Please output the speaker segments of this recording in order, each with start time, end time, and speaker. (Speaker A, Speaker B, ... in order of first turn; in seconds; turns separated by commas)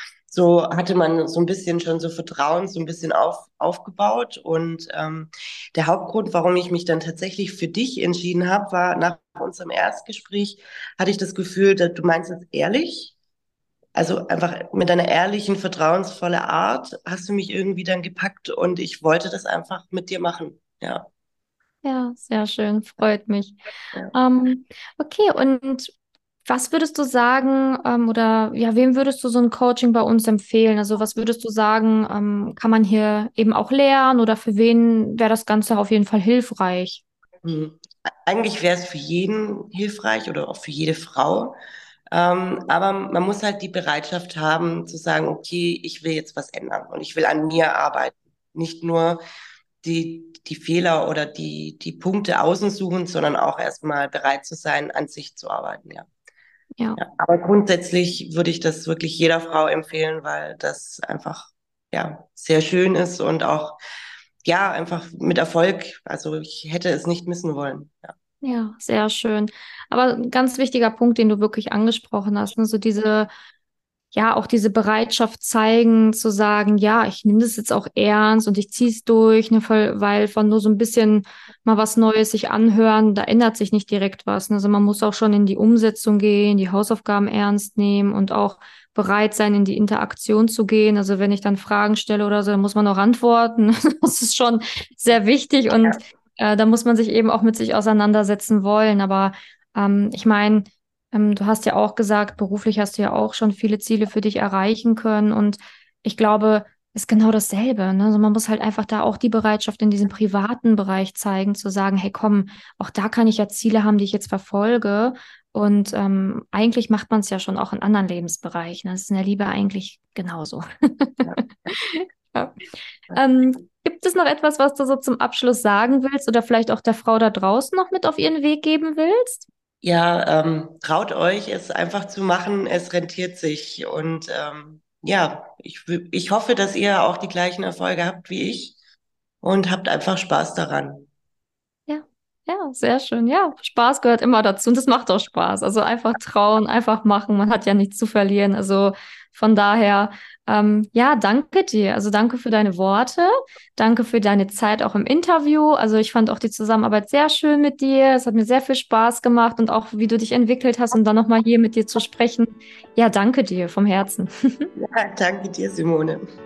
Speaker A: 0.3-13.1, Speaker A: 13.9-21.1, Speaker B: 21.8-23.6, Speaker B: 24.1-25.9, Speaker B: 26.4-37.0, Speaker A: 37.4-41.6, Speaker A: 42.1-49.2, Speaker A: 49.8-56.1, Speaker A: 57.0-63.8, Speaker A: 64.4-68.1, Speaker B: 68.4-73.3, Speaker B: 74.1-122.6, Speaker B: 123.1-129.5, Speaker A: 129.8-138.8, Speaker A: 139.4-141.1, Speaker B: 141.9-164.7, Speaker A: 164.8-166.2